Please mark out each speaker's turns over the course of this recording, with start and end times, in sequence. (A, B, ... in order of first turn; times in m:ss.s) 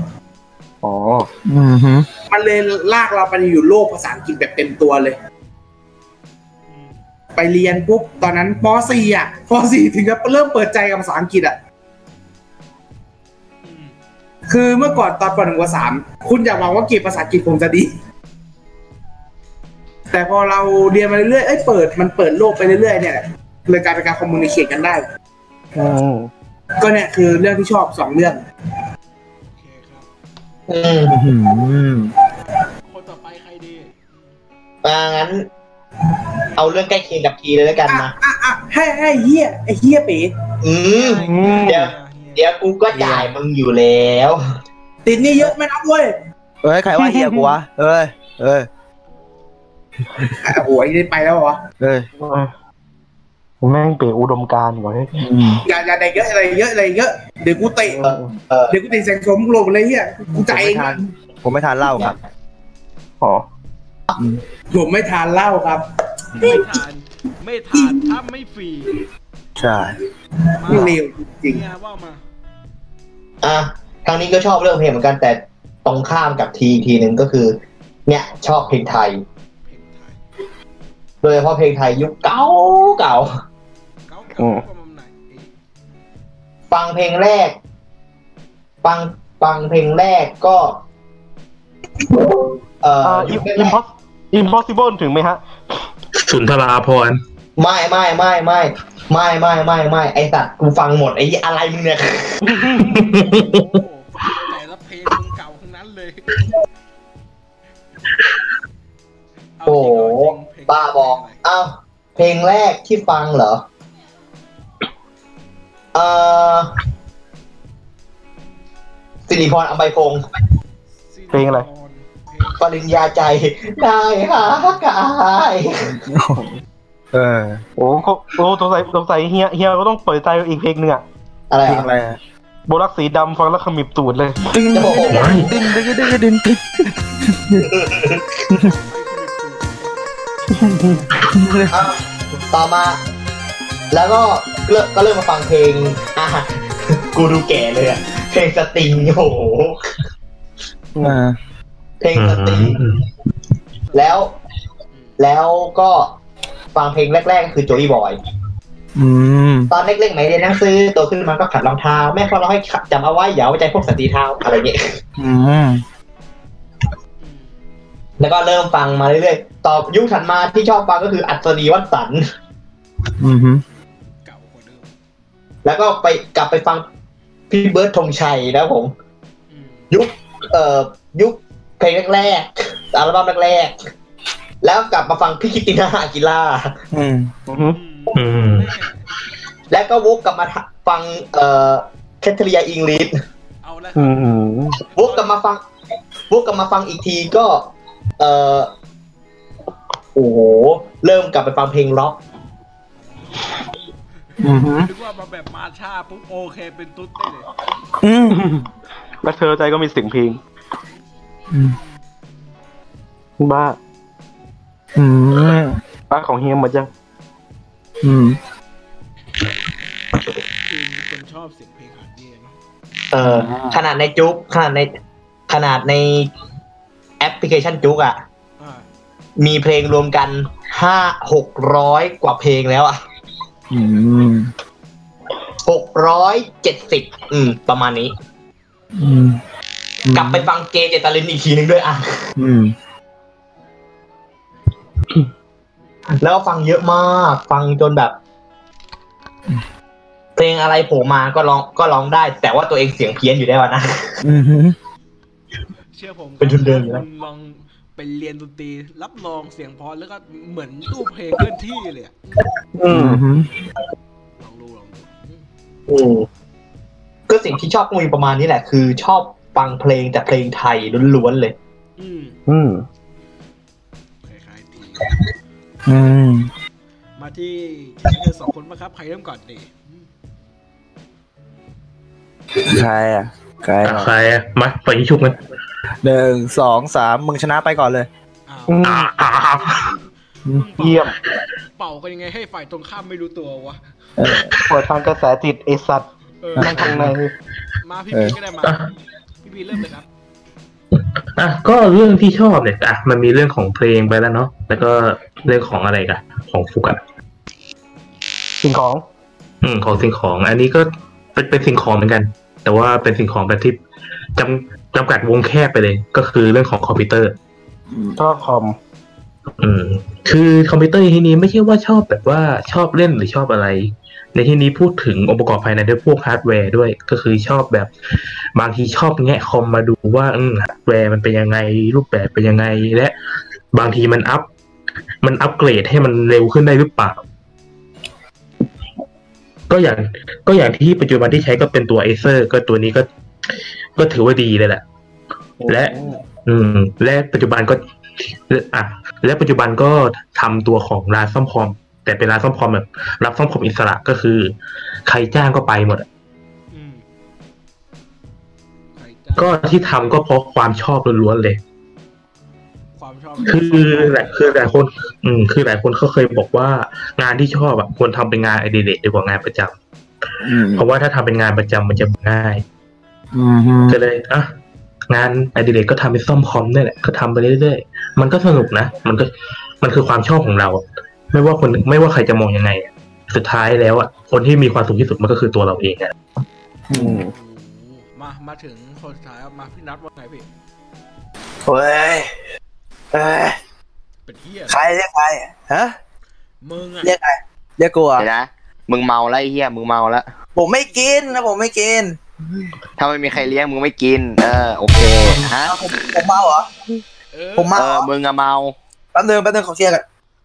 0:00.8-0:01.3 A
0:01.5-0:02.1 B
0:02.3-0:05.2 C
0:06.7-0:07.0 D
0:07.4-0:11.6 C
0:13.6-0:14.0 D
0:14.5-0:17.9 C
0:20.1-0:25.0 C
0:25.8-0:26.3 A
0:26.8-0:28.4 C
0:29.5-0:30.1 D
0:30.7-0:31.2 E
0:31.1-0:32.1 B
0:32.4-0:34.4 D
0:34.8-0:35.5 E
0:36.6-0:36.9 D
0:36.6-0:38.1 E
0:37.9-0:40.3 C
0:40.6-0:44.4 E
0:40.9-0:42.5 D
0:41.2-0:41.8 A
0:42.9-0:43.3 B
0:45.0-0:46.1 C
0:46.6-0:48.7 B
0:47.0-0:47.6 A
0:50.4-0:51.6 C
0:51.8-0:52.1 B
0:52.2-0:52.5 A
0:53.6-0:55.1 A
0:55.2-0:55.6 B
0:55.6-0:58.1 C
0:57.9-0:58.3 A
0:58.0-0:58.8 E
0:58.7-1:01.0 C
1:00.3-1:02.2 B
1:02.0-1:02.2 E
1:03.2-1:03.5 A
1:04.7-1:05.8 C
1:06.4-1:06.7 C
1:06.4-1:09.0 D
1:07.7-1:08.1 C
1:09.6-1:10.0 B
1:10.6-1:12.2 D
1:10.6-1:11.6 C
1:13.4-1:19.2 E
1:19.7-1:20.2 D
1:21.2-1:23.3 E
1:24.1-1:25.5 D
1:24.4-1:24.6 A
1:26.7-1:27.6 E
1:28.8-1:30.8 E
1:32.8-1:33.8 E
1:33.0-1:35.4 A
1:36.2-1:37.2 F
1:37.6-1:42.4 E
1:42.4-1:43.0 A
1:42.8-1:43.8 F
1:43.2-1:46.4 D
1:49.6-1:51.4 D
1:49.7-1:53.6 E
1:55.9-1:56.7 E
1:59.3-2:00.2 E
2:00.9-2:02.7 D
2:01.3-2:01.6 A
2:02.5-2:05.9 E
2:05.8-2:06.4 B
2:07.1-2:07.6 B
2:07.8-2:11.0 A
2:11.5-2:11.9 E
2:11.6-2:12.2 B
2:12.7-2:14.4 A
2:14.5-2:17.7 B
2:14.7-2:15.6 E
2:15.1-2:15.5 F
2:17.6-2:18.3 E
2:18.6-2:20.1 D
2:20.6-2:21.1 A
2:20.7-2:21.8 B
2:21.7-2:23.0 E
2:23.9-2:29.8 E
2:31.0-2:31.4 B
2:32.0-2:32.8 E
2:32.2-2:33.0 F
2:33.9-2:34.2 D
2:33.9-2:34.4 E
2:34.9-2:35.2 D
2:35.2-2:36.1 E
2:36.7-2:38.2 E
2:39.0-2:39.7 B
2:39.7-2:45.0 E
2:45.2-2:45.8 B
2:47.2-2:47.6 D
2:48.2-2:52.2 E
2:53.2-2:53.6 B
2:54.2-2:54.9 D
2:55.6-2:56.9 E
2:57.5-2:58.9 E
2:59.5-2:59.9 D
2:59.9-3:03.8 E
3:04.6-3:06.7 E
3:06.9-3:07.3 B
3:07.5-3:07.8 A
3:07.7-3:09.0 D
3:08.1-3:08.8 F
3:09.7-3:13.1 E
3:13.6-3:14.4 D
3:14.0-3:14.8 A
3:15.0-3:15.6 E
3:15.0-3:15.4 D
3:16.3-3:18.7 E
3:20.2-3:22.2 E
3:23.0-3:23.5 D
3:24.4-3:24.9 B
3:24.6-3:27.5 D
3:28.0-3:28.4 B
3:28.3-3:28.7 A
3:29.2-3:30.4 A
3:31.5-3:31.8 B
3:33.4-3:33.8 A
3:35.0-3:35.8 B
3:36.1-3:36.9 A
3:38.0-3:38.4 B
3:40.6-3:42.6 D
3:43.1-3:44.9 E
3:43.2-3:43.8 B
3:45.5-3:46.3 E
3:47.2-3:48.2 E
3:48.6-3:48.9 D
3:49.4-3:53.0 E
3:53.7-3:54.5 B
3:55.6-3:58.1 E
3:59.0-3:59.4 B
4:00.0-4:00.5 B
4:00.1-4:02.3 E
4:02.4-4:02.8 B
4:06.2-4:08.2 E
4:10.4-4:14.1 E
4:14.2-4:14.8 B
4:15.9-4:22.5 D
4:16.4-4:17.0 E
4:22.8-4:23.2 A
4:22.9-4:23.5 B
4:24.4-4:25.5 D
4:25.9-4:26.3 E
4:27.3-4:31.6 E
4:32.0-4:32.4 D
4:32.5-4:32.8 A
4:34.2-4:35.2 D
4:35.9-4:36.5 B
4:37.2-4:40.1 D
4:42.6-4:44.1 B
4:43.8-4:45.4 F
4:46.0-4:48.1 B
4:48.5-4:48.8 D
4:48.7-4:49.1 A
4:48.8-4:49.9 F
4:50.5-4:51.1 D
4:50.8-4:51.2 A
4:51.8-4:53.8 D
4:54.2-4:54.5 B
4:54.7-4:56.1 A
4:56.4-4:57.0 D
4:56.6-4:57.1 B
4:56.6-4:57.3 A
4:57.8-4:58.8 D
4:58.6-4:58.9 F
4:59.4-5:00.1 D
5:01.0-5:07.0 F
5:08.6-5:09.0 A
5:09.6-5:13.8 F
5:14.4-5:17.4 F
5:17.9-5:18.2 B
5:18.2-5:18.8 A
5:19.6-5:27.9 F
5:28.6-5:33.1 F
5:33.7-5:34.5 F
5:35.2-5:37.2 F
5:39.7-5:43.1 F
5:44.0-5:44.8 F
5:45.6-5:46.2 A
5:45.7-5:46.0 F
5:46.5-5:54.5 F
5:55.1-5:56.1 F
5:56.7-5:57.0 D
5:59.0-6:00.1 D
5:59.4-6:01.6 F
6:03.0-6:04.7 D
6:03.4-6:09.8 F
6:10.4-6:10.9 B
6:10.7-6:12.6 F
6:13.3-6:14.0 B
6:13.9-6:14.5 F
6:15.1-6:19.3 F
6:19.8-6:26.1 F
6:26.9-6:27.2 B
6:26.9-6:27.3 A
6:27.3-6:30.5 D
6:31.6-6:32.3 B
6:33.1-6:33.6 B
6:34.3-6:34.8 D
6:34.7-6:36.0 B
6:36.6-6:37.1 D
6:37.0-6:38.3 B
6:38.2-6:40.3 G
6:40.6-6:42.7 B
6:43.0-6:45.8 G
6:45.6-6:46.7 B
6:47.3-6:47.8 D
6:47.6-6:48.1 B
6:47.8-6:48.8 G
6:49.2-6:50.0 B